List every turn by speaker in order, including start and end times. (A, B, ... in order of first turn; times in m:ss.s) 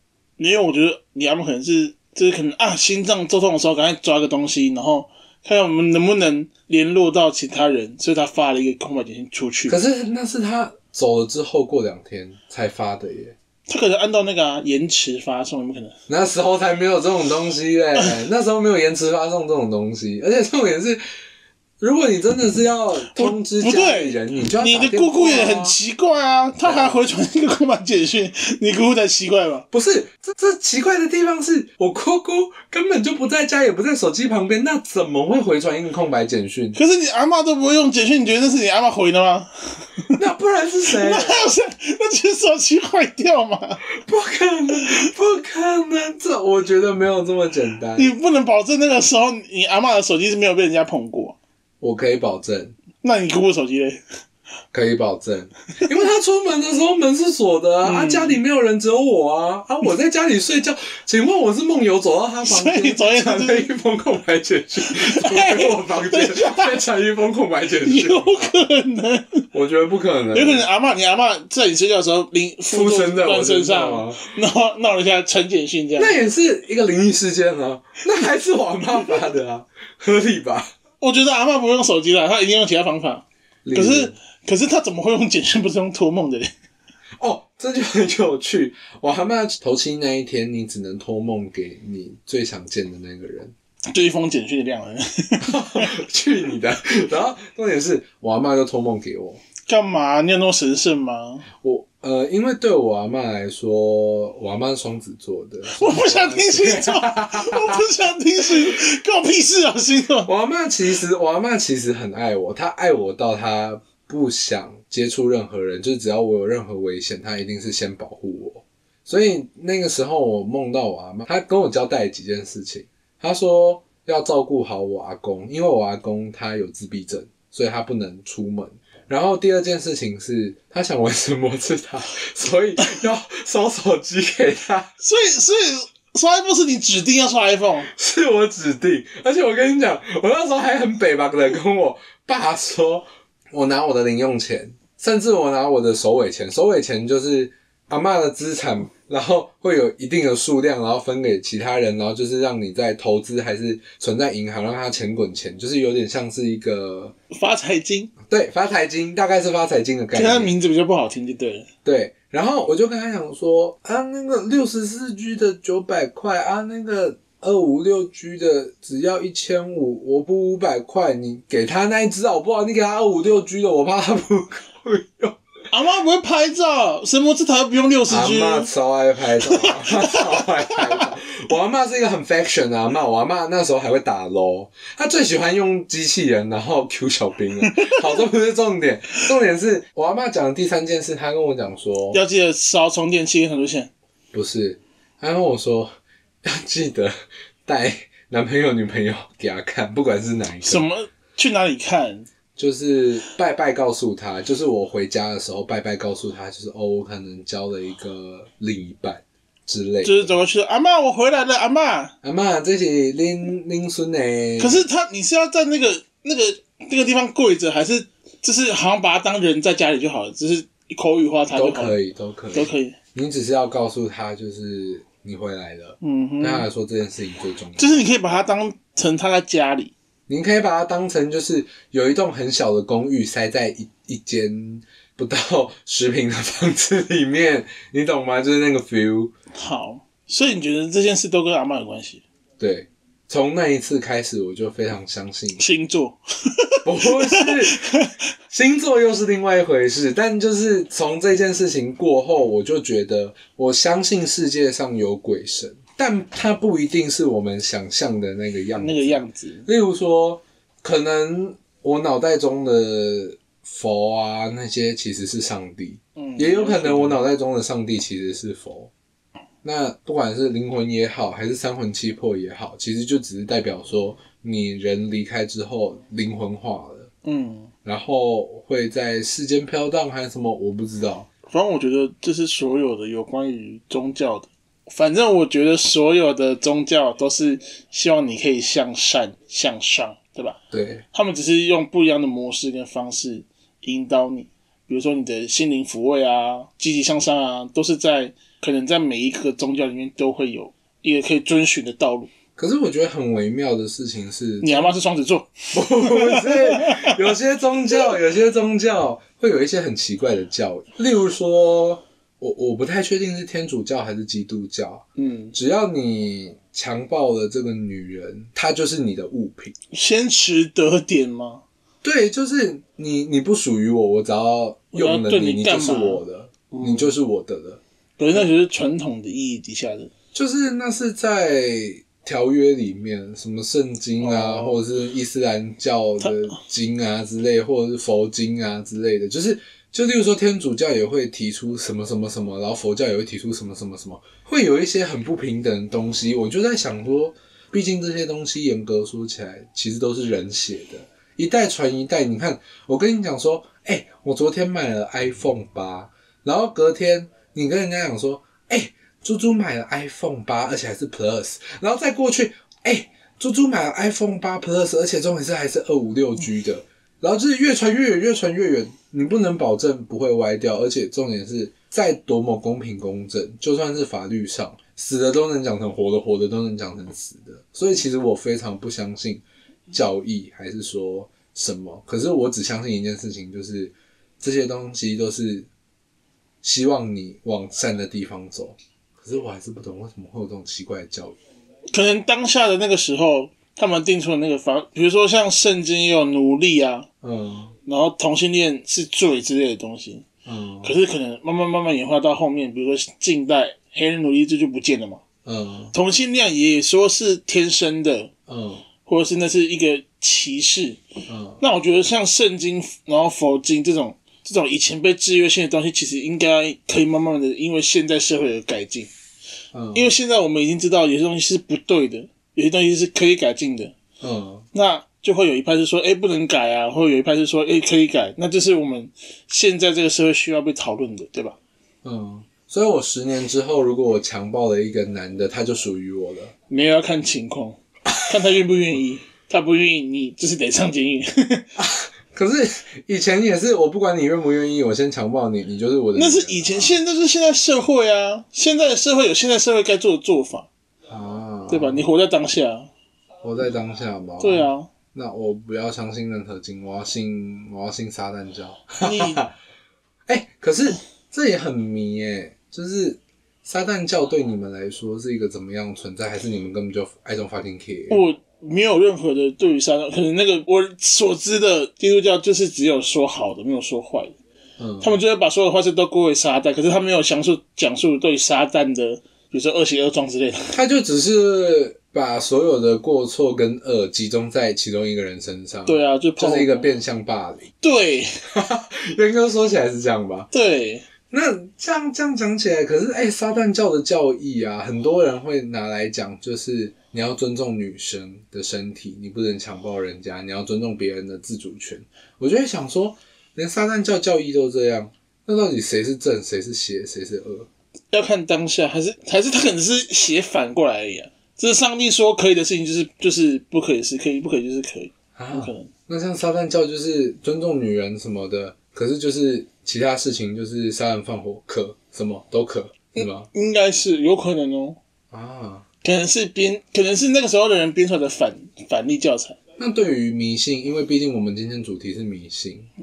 0:00.4-0:09.8 A
0:09.7-0:13.3 B
0:13.7-0:15.9 A
0:16.1-0:21.0 B
0:21.8-0:25.8 B
0:23.1-0:29.6 A
0:26.6-0:27.0 B
0:29.7-0:36.8 B
0:36.7-0:40.2 A
0:40.2-0:41.4 B
0:40.9-0:43.8 A
0:43.9-0:48.1 B
0:48.0-0:51.4 A
0:51.8-0:52.8 B
0:53.0-0:54.0 A
0:54.7-1:08.5 B
0:57.8-0:58.4 A
1:02.4-1:03.7 A
1:04.9-1:06.8 A
1:07.8-1:09.4 A
1:09.5-1:10.7 B
1:10.3-1:16.2 A
1:12.7-1:14.2 B
1:16.0-1:20.7 B
1:21.0-1:26.5 A
1:23.6-1:24.1 B
1:27.2-1:33.5 B
1:33.9-1:35.9 A
1:35.4-1:39.4 B
1:39.6-1:41.4 A
1:41.6-1:47.8 B
1:45.7-1:50.3 A
1:50.2-2:14.9 B
2:15.0-2:17.9 A
2:17.9-2:37.1 B
2:37.3-2:38.1 A
2:38.3-2:40.5 B
2:40.1-2:41.7 A
2:41.8-2:55.4 B
2:55.7-2:58.7 A
2:58.1-3:12.2 B
2:59.4-3:01.0 A
3:07.6-3:08.2 A
3:12.1-3:13.9 A
3:14.3-3:17.1 B
3:17.6-3:20.8 B
3:20.6-3:22.3 A
3:22.6-3:30.4 B
3:30.0-3:32.1 A
3:32.2-3:34.8 B
3:34.6-3:42.0 A
3:41.5-3:48.1 B
3:42.5-3:43.0 A
3:46.0-3:46.7 A
3:47.8-3:49.9 A
3:50.3-3:59.3 B
3:59.5-4:02.2 A
4:02.6-4:05.6 B
4:05.6-4:08.1 A
4:06.8-4:07.8 B
4:08.5-4:28.9 B
4:18.8-4:19.7 A
4:26.2-4:27.2 A
4:29.6-4:37.1 B
4:37.2-4:37.7 A
4:37.8-4:41.3 B
4:41.4-4:50.6 A
4:50.7-4:51.0 B
4:51.1-5:02.3 A
5:02.6-5:05.0 B
5:04.6-5:07.2 A
5:05.7-5:19.7 B
5:15.2-5:15.5 A
5:19.9-5:21.6 A
5:22.0-5:27.8 B
5:24.9-5:27.1 A
5:28.2-5:30.1 A
5:30.3-6:25.7 B
5:34.2-5:34.8 A
6:26.6-6:31.4 B
6:31.9-6:37.1 A
6:37.2-6:37.7 B
6:37.8-6:40.2 A
6:40.4-6:41.0 B
6:40.8-6:45.2 A
6:45.4-6:45.9 B
6:45.9-6:48.3 A
6:48.5-6:48.8 B
6:49.0-6:51.0 A
6:51.3-6:51.6 B
6:51.6-6:59.1 A
6:59.7-7:00.1 B
6:59.9-7:03.9 A
7:04.2-7:04.6 B
7:04.7-7:11.6 A
7:12.0-7:16.5 B
7:16.7-7:21.7 A
7:21.8-7:27.0 B
7:26.1-7:30.7 A
7:31.1-7:32.0 B
7:31.7-7:32.9 A
7:33.4-7:39.5 B
7:34.4-7:34.9 A
7:39.0-7:39.4 A
7:40.3-7:48.2 B
7:48.1-7:54.4 A
7:54.8-7:55.2 B
7:55.0-8:00.7 A
8:00.7-8:07.7 B
8:05.8-8:06.9 A
8:07.8-8:08.4 A
8:08.5-8:10.5 B
8:10.5-8:11.0 A
8:11.3-8:27.7 B
8:28.1-8:35.9 A
8:35.4-8:43.5 B
8:43.1-8:45.0 A
8:45.3-8:45.8 B
8:46.0-8:49.6 A
8:49.8-8:52.9 B